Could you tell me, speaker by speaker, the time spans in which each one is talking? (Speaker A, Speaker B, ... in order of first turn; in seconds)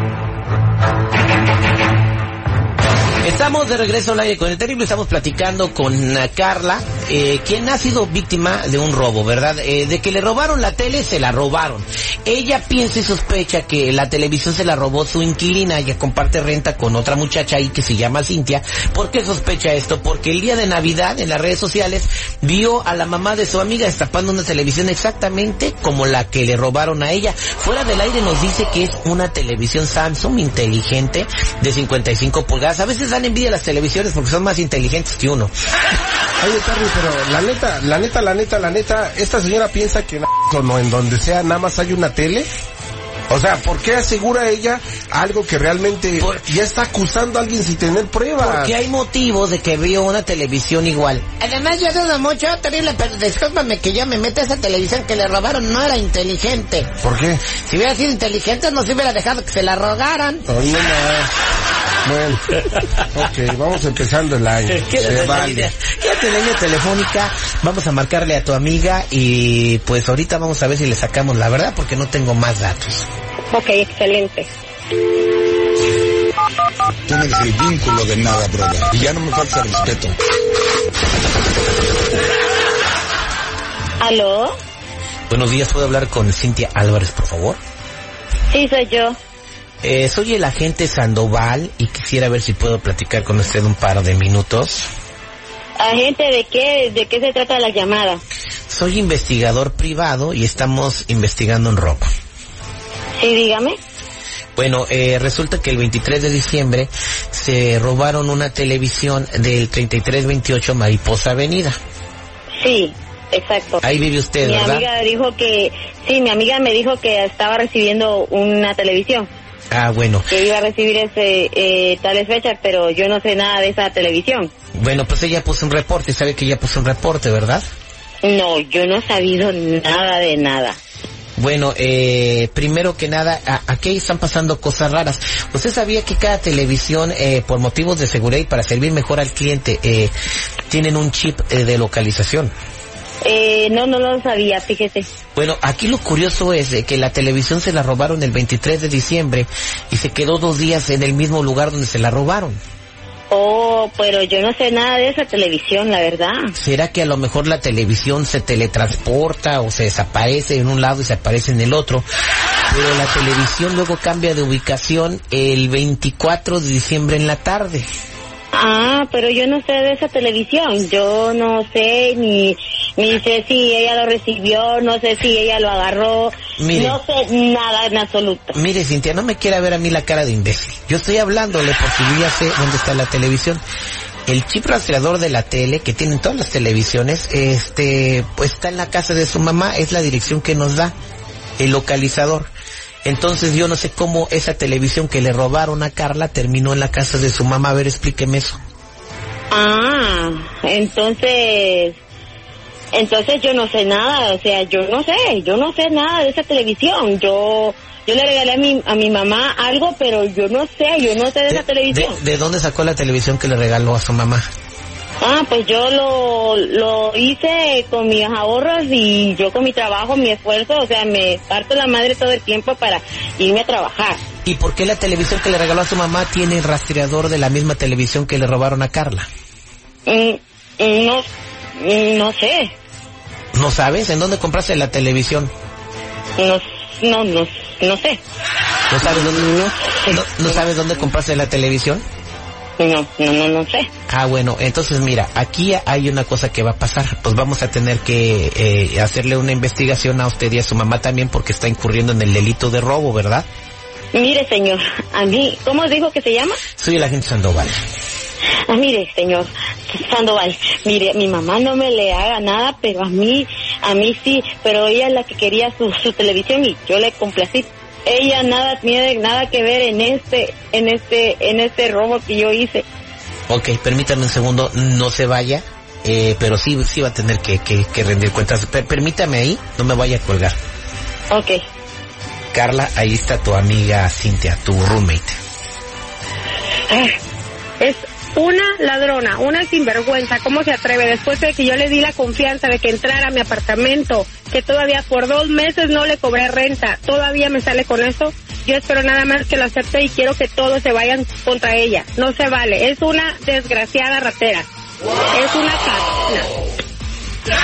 Speaker A: 3.2-35.5, 46.2-46.5, 48.4-56.9, 57.5-60.5, 64.7-73.1, 85.3-87.6, 89.8-94.9, 98.7-102.1, 104.6-111.8, 113.8-114.9, 119.7-120.3, 124.8-127.6, 131.4-140.1, 140.7-142.5, 145.4-152.6, 156.6-162.1, 162.7-167.9, 176.6-177.0, 178.6-183.6, 184.3-190.9, 191.6-192.5, 193.1-198.6, 211.5-214.5, 224.4-229.3, 233.5-235.5, 238.9-239.5, 240.1-242.0, 244.1-253.5, 256.8-257.7, 273.5-280.6, 282.5-285.4
Speaker B: 36.4-42.5, 43.3-48.7, 57.0-57.5, 60.5-61.3, 62.0-62.5, 63.1-65.7
Speaker C: 73.5-74.5, 286.9-287.2, 287.8-304.6, 305.4-306.4
Speaker D: 77.1-80.2
Speaker E: 84.0-84.6, 88.5-89.2, 95.8-98.2, 103.2-103.8, 112.6-113.8, 114.4-119.3, 120.3-124.5, 128.2-130.8, 143.2-145.1, 153.3-156.5, 168.5-178.6, 199.5-202.0, 202.9-212.2, 215.2-224.2, 230.1-231.3, 231.8-232.7, 236.4-238.2, 239.0-240.6, 242.8-243.9, 254.1-256.6, 258.7-272.9, 281.3-281.6